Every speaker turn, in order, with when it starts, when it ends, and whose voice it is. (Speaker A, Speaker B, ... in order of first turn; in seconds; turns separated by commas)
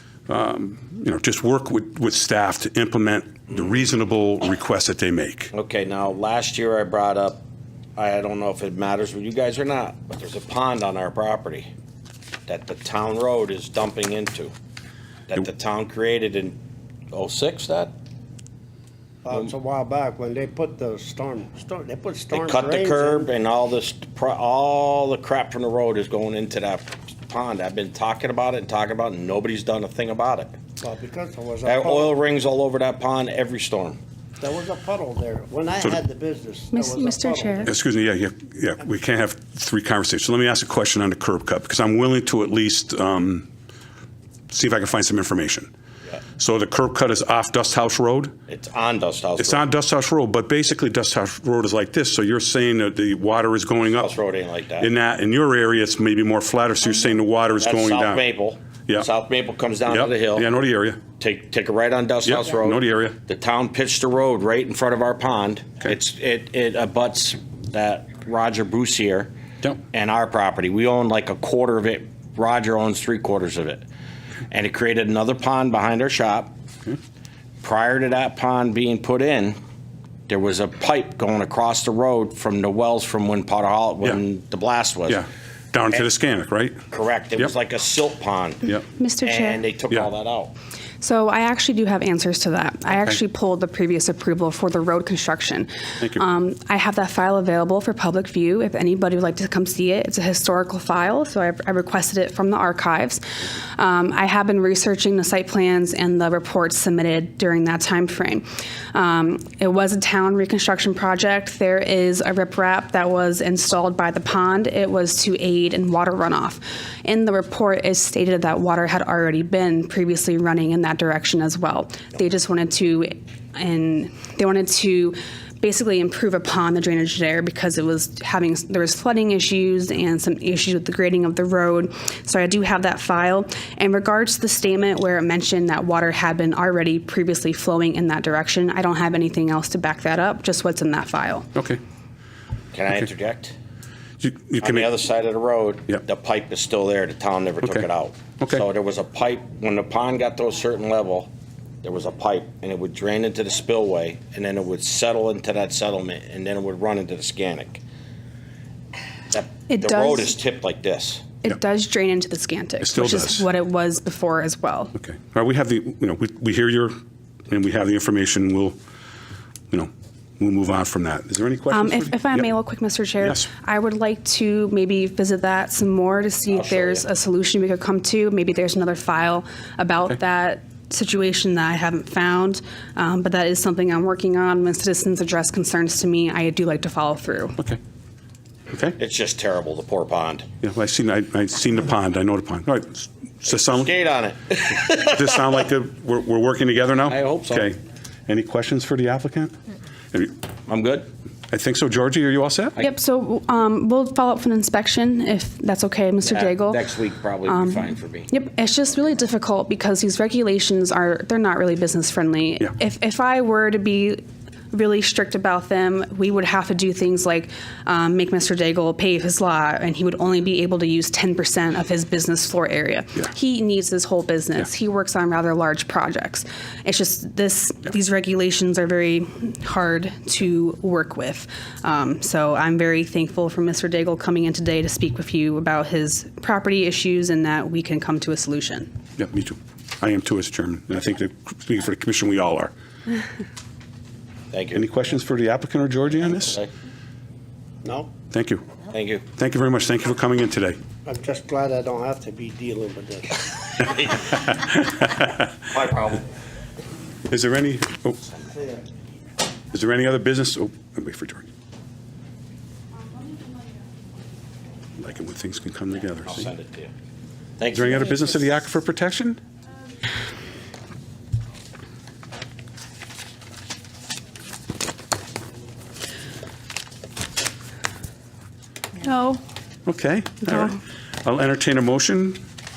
Speaker A: 0.3-5.5, Speaker B: 5.5-7.4, Speaker B: 8.0-11.7, Speaker B: 12.5-14.5, Speaker B: 15.3-16.6, Speaker B: 17.1-17.9, Speaker C: 19.2-23.3, Speaker B: 22.3-30.5, Speaker C: 30.8-32.2, Speaker B: 31.6-34.0, Speaker C: 34.4-37.7, Speaker D: 36.7-37.7, Speaker A: 37.6-43.5, Speaker A: 44.5-45.7, Speaker A: 46.4-48.3, Speaker B: 48.5-49.7, Speaker A: 49.4-54.1, Speaker B: 53.8-54.9, Speaker A: 54.8-58.2, Speaker B: 57.6-60.5, Speaker A: 59.9-61.0, Speaker B: 61.2-69.3, Speaker A: 62.2-63.2, Speaker B: 69.9-73.8, Speaker B: 74.5-76.5, Speaker B: 77.6-79.6, Speaker B: 80.3-85.2, Speaker A: 85.1-86.8, Speaker B: 86.9-88.7, Speaker D: 88.9-89.6, Speaker B: 89.2-90.5, Speaker D: 91.0-141.5, Speaker A: 141.5-141.8, Speaker B: 142.7-143.6, Speaker A: 144.2-144.9, Speaker B: 144.6-151.3, Speaker A: 148.4-148.7, Speaker B: 151.8-157.8, Speaker B: 159.3-161.3, Speaker D: 159.7-160.3, Speaker D: 161.4-164.9, Speaker A: 162.8-163.5, Speaker A: 164.9-166.9, Speaker A: 167.5-168.8, Speaker A: 169.7-172.5, Speaker D: 171.7-187.6, Speaker A: 173.2-173.5, Speaker B: 176.5-177.0, Speaker A: 188.7-189.0, Speaker B: 189.0-190.5, Speaker A: 190.6-193.9, Speaker B: 193.5-195.2, Speaker A: 194.8-199.5, Speaker B: 197.1-197.7, Speaker B: 200.7-201.1, Speaker A: 201.5-202.8, Speaker D: 202.8-238.9, Speaker B: 206.2-208.3, Speaker A: 239.2-242.7, Speaker B: 244.5-244.8, Speaker A: 244.8-246.6, Speaker B: 246.4-246.7, Speaker C: 247.8-248.1, Speaker A: 248.3-248.6, Speaker B: 248.9-249.2, Speaker A: 249.3-250.8, Speaker C: 251.0-253.9, Speaker A: 254.3-255.4, Speaker B: 255.7-256.2, Speaker A: 257.3-258.3, Speaker A: 259.7-261.5, Speaker A: 265.0-266.5, Speaker B: 266.2-266.9, Speaker B: 267.6-268.0, Speaker A: 267.7-269.4, Speaker D: 279.0-279.4, Speaker A: 279.9-282.4